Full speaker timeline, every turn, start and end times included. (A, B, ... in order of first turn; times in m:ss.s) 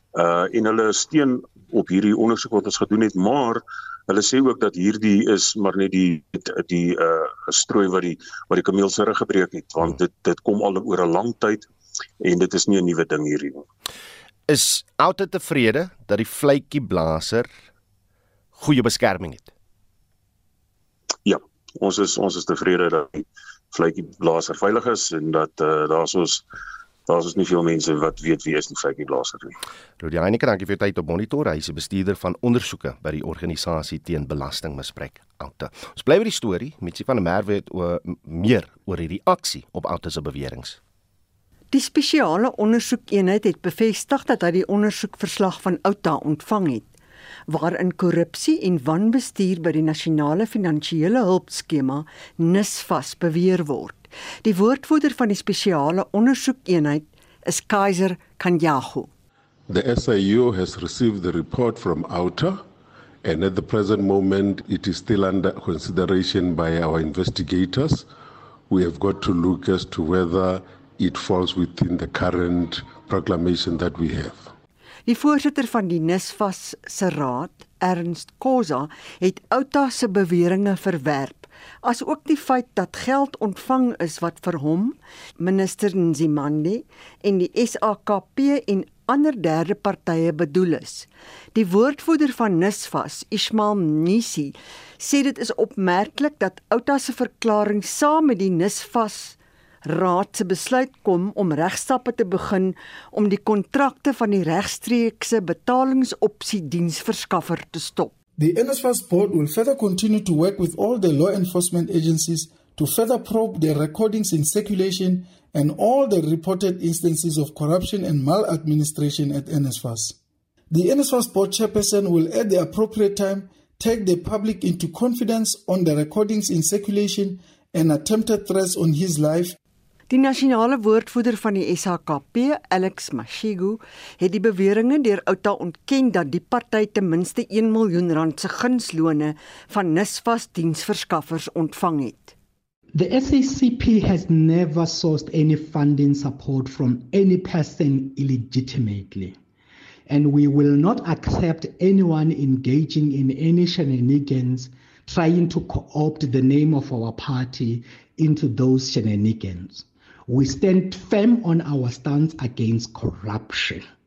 0:00.2-0:11.7 A
0:12.2-0:13.6 A
0:14.5-0:17.5 B
0:18.6-0:19.5 B
0:21.2-0:26.4 A
0:27.1-0:29.5 A
0:30.0-0:40.8 B
0:41.7-0:46.9 C
0:47.5-0:59.1 C
0:59.7-1:02.6 D
1:03.2-1:08.1 D
1:08.7-1:14.5 D
1:15.1-1:48.2 C
1:48.4-2:00.2 E
2:00.7-2:09.6 E
2:10.1-2:22.3 C
2:22.9-2:29.4 F
2:30.1-2:43.9 F